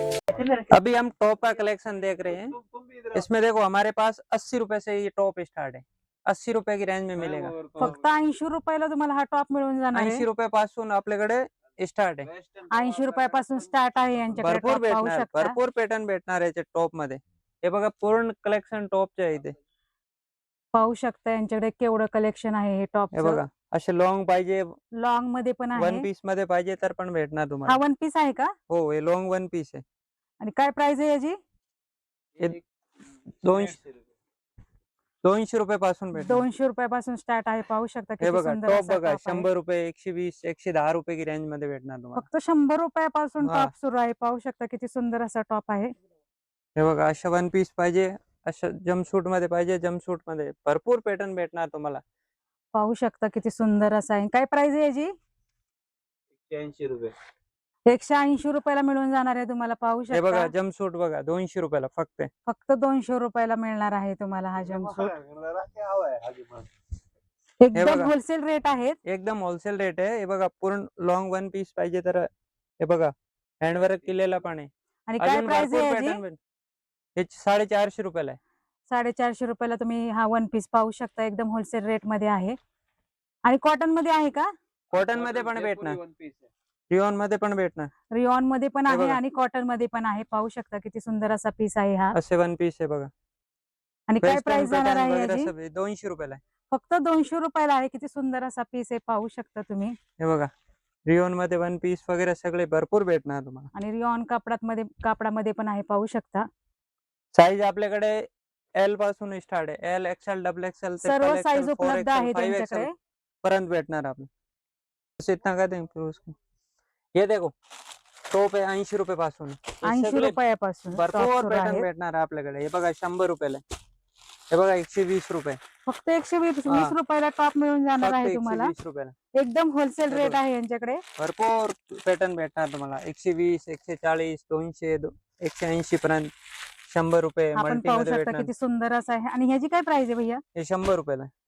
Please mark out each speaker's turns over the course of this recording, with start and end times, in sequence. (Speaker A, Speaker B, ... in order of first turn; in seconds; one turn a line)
Speaker A: 0.7-2.6
Speaker B: 2.7-3.1
Speaker A: 3.1-7.9
Speaker B: 7.3-7.9
Speaker C: 7.8-10.2
Speaker A: 9.9-12.3
Speaker B: 12.4-12.8
Speaker C: 12.7-15.6
Speaker A: 14.4-19.6
Speaker C: 20.7-23.4
Speaker A: 23.1-24.8
Speaker C: 25.0-26.1
Speaker A: 25.7-27.8
Speaker C: 27.6-28.5
Speaker A: 28.7-29.8
Speaker C: 30.4-31.4
Speaker A: 33.4-33.8
Speaker A: 35.2-36.5
Speaker C: 36.1-39.5
Speaker A: 38.2-42.3
Speaker C: 42.1-45.9
Speaker A: 43.4-43.7
Speaker A: 46.8-52.0
Speaker C: 52.7-55.1
Speaker B: 56.5-57.1
Speaker C: 57.9-60.5
Speaker A: 60.1-62.3
Speaker C: 62.5-65.1
Speaker B: 65.0-66.7
Speaker C: 67.6-69.0
Speaker A: 67.7-68.1
Speaker A: 69.0-72.3
Speaker A: 72.8-76.4
Speaker C: 75.1-76.2
Speaker A: 77.2-78.4
Speaker C: 78.9-82.5
Speaker C: 83.4-84.5
Speaker A: 84.9-86.0
Speaker B: 85.0-86.5
Speaker A: 86.9-87.9
Speaker C: 88.1-92.2
Speaker A: 88.9-89.2
Speaker A: 92.1-93.1
Speaker C: 94.1-95.5
Speaker A: 94.2-96.4
Speaker C: 96.7-99.9
Speaker A: 100.2-100.5
Speaker A: 101.1-103.7
Speaker C: 103.7-106.5
Speaker A: 107.3-112.9
Speaker C: 111.0-112.9
Speaker A: 113.4-114.3
Speaker A: 115.2-116.3
Speaker A: 117.2-117.5
Speaker A: 118.3-120.3
Speaker C: 119.8-121.9
Speaker A: 120.9-123.6
Speaker A: 124.5-125.6
Speaker C: 125.8-128.7
Speaker A: 126.7-126.9
Speaker A: 128.0-129.1
Speaker C: 129.3-131.0
Speaker A: 130.1-130.4
Speaker A: 131.2-136.3
Speaker A: 136.9-138.5
Speaker C: 137.5-140.4
Speaker A: 140.5-141.3